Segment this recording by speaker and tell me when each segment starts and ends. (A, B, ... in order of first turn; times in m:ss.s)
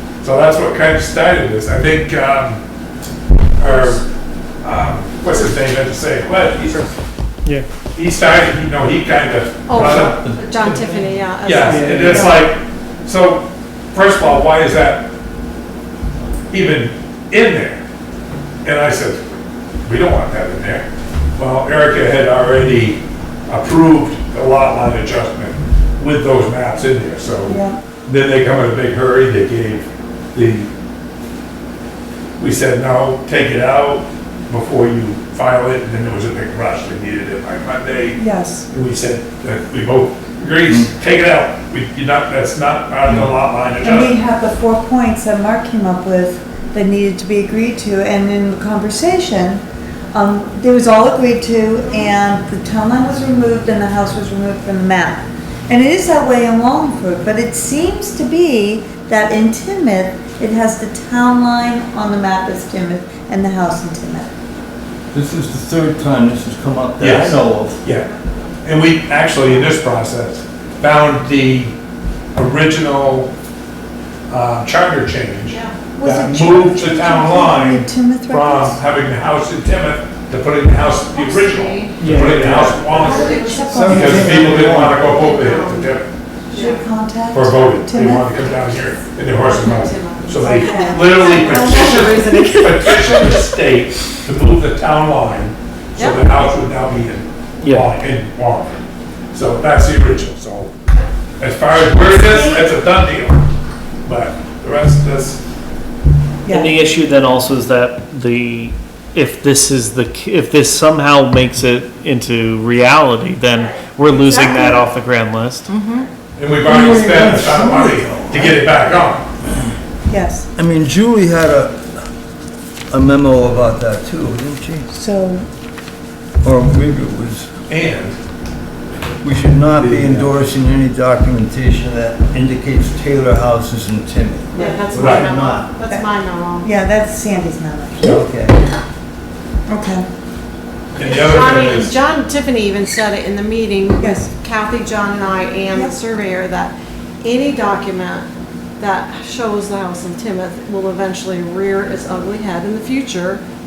0:00.2-0:02.6 A
0:03.5-0:04.0 A
0:03.6-0:03.9 B
0:04.6-0:06.9 A
0:07.9-0:10.2 A
0:09.7-0:12.3 B
0:09.8-0:11.0 C
0:11.4-0:15.1 A
0:11.7-0:12.2 D
0:16.5-0:17.8 A
0:18.6-0:19.2 A
0:19.8-0:20.8 A
0:21.4-0:30.7 A
0:27.4-0:27.8 E
0:32.4-0:44.1 A
0:38.2-0:38.7 E
0:43.1-0:43.3 C
0:43.8-1:04.3 E
1:05.1-1:07.8 C
1:07.0-1:08.1 A
1:07.7-1:08.9 B
1:08.6-1:11.7 A
1:09.4-1:09.7 B
1:12.3-1:13.3 A
1:14.3-1:26.1 A
1:15.5-1:15.8 B
1:15.9-1:18.8 E
1:21.1-1:26.9 B
1:22.0-1:22.9 D
1:22.9-1:24.6 E
1:23.7-1:25.1 C
1:26.5-1:28.4 E
1:27.3-1:38.8 A
1:29.4-1:33.3 B
1:30.4-1:32.7 E
1:36.0-1:36.3 B
1:39.3-1:40.7 A
1:41.4-1:43.4 A
1:42.2-1:42.7 E
1:44.0-1:45.4 A
1:46.4-1:46.8 E
1:46.5-1:55.7 D
1:53.5-1:54.8 B
1:55.7-1:56.1 B
1:56.4-1:59.2 A
1:56.6-1:58.6 C
2:00.1-2:00.5 E
2:00.5-2:01.9 C
2:02.9-2:04.9 C
2:04.9-2:05.5 E
2:06.4-2:07.5 C
2:07.7-2:08.2 A
2:09.2-2:15.6 C
2:09.8-2:10.3 A
2:14.5-2:16.7 B
2:14.5-2:14.9 E
2:15.0-2:15.3 A
2:16.6-2:18.2 E
2:18.0-2:18.6 C
2:19.7-2:20.0 E
2:20.9-2:21.9 A
2:21.0-2:28.3 B
2:24.0-2:24.3 E
2:25.7-2:26.0 E
2:28.8-2:33.4 B